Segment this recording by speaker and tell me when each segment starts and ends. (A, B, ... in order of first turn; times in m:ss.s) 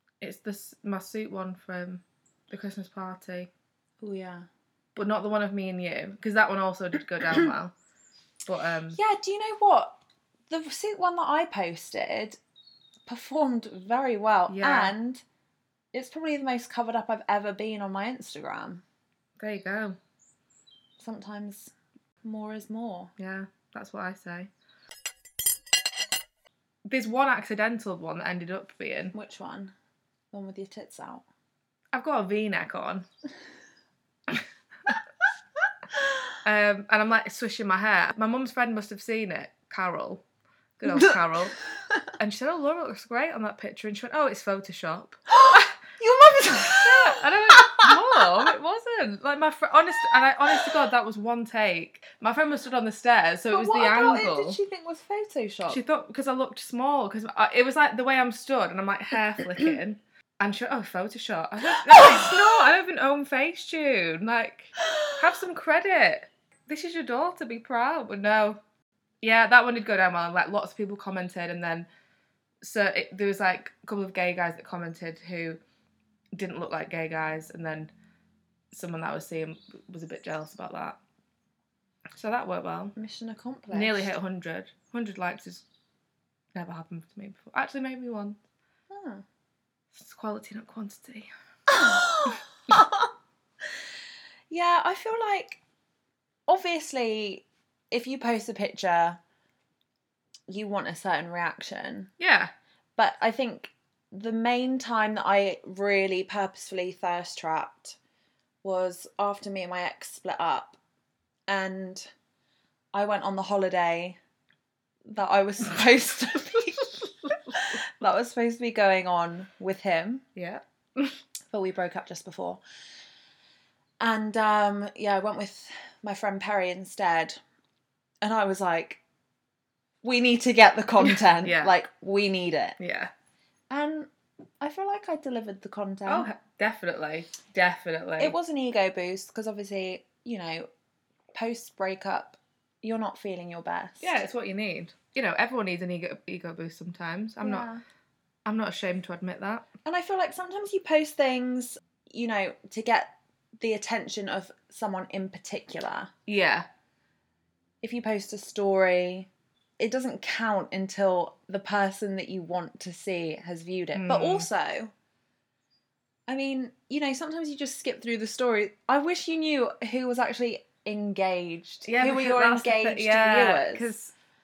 0:00.2-0:03.5 A
0:04.0-0:04.5 B
0:04.9-0:07.7 A
0:08.4-0:09.0 A
0:08.9-0:09.9 B
0:10.5-0:12.4 B
0:13.0-0:15.2 B
0:14.5-0:14.9 A
0:15.9-0:18.8 B
0:19.4-0:20.0 A
0:21.0-0:21.7 B
0:22.2-0:23.1 B
0:23.2-0:24.5 A
0:26.8-0:29.1 A
0:29.1-0:29.7 B
0:30.3-0:31.2 B
0:31.9-0:33.0 A
0:34.3-0:35.0 A
0:36.4-0:40.2 A
0:40.8-0:41.6 A
0:40.8-0:41.2 B
0:42.2-0:45.8 A
0:45.4-0:47.9 B
0:46.8-0:54.6 A
0:53.5-0:55.8 B
0:55.7-1:08.6 A
1:01.9-1:02.2 B
1:09.2-1:11.9 A
1:12.6-1:15.6 A
1:16.3-1:17.9 A
1:18.7-1:21.0 A
1:22.2-1:22.9 A
1:23.0-1:24.1 B
1:23.7-1:25.6 A
1:26.5-1:28.4 A
1:28.9-1:29.2 B
1:29.9-1:31.3 A
1:31.7-1:33.1 B
1:34.5-1:35.6 B
1:36.5-1:39.2 B
1:40.5-1:42.1 B
1:42.2-1:42.5 A
1:43.0-1:48.0 B
1:48.6-1:50.8 B
1:51.5-1:52.1 B
1:52.9-1:54.2 B
1:55.1-2:00.2 B
1:57.2-1:57.8 A
2:00.3-2:01.2 A
2:01.5-2:02.6 B
2:04.0-2:07.4 B
2:08.2-2:09.0 B
2:10.0-2:12.8 B
2:11.4-2:11.7 A
2:12.8-2:13.1 A
2:13.7-2:14.1 B
2:14.6-2:16.3 B
2:16.1-2:18.3 A
2:18.2-2:20.7 B
2:21.3-2:24.1 B
2:24.0-2:27.7 A
2:27.4-2:27.8 B
2:28.4-2:29.6 A
2:29.8-2:36.1 B
2:36.3-2:36.6 A
2:37.8-2:44.9 B
2:43.9-2:44.5 A
2:46.3-2:53.9 B
2:51.8-2:54.1 A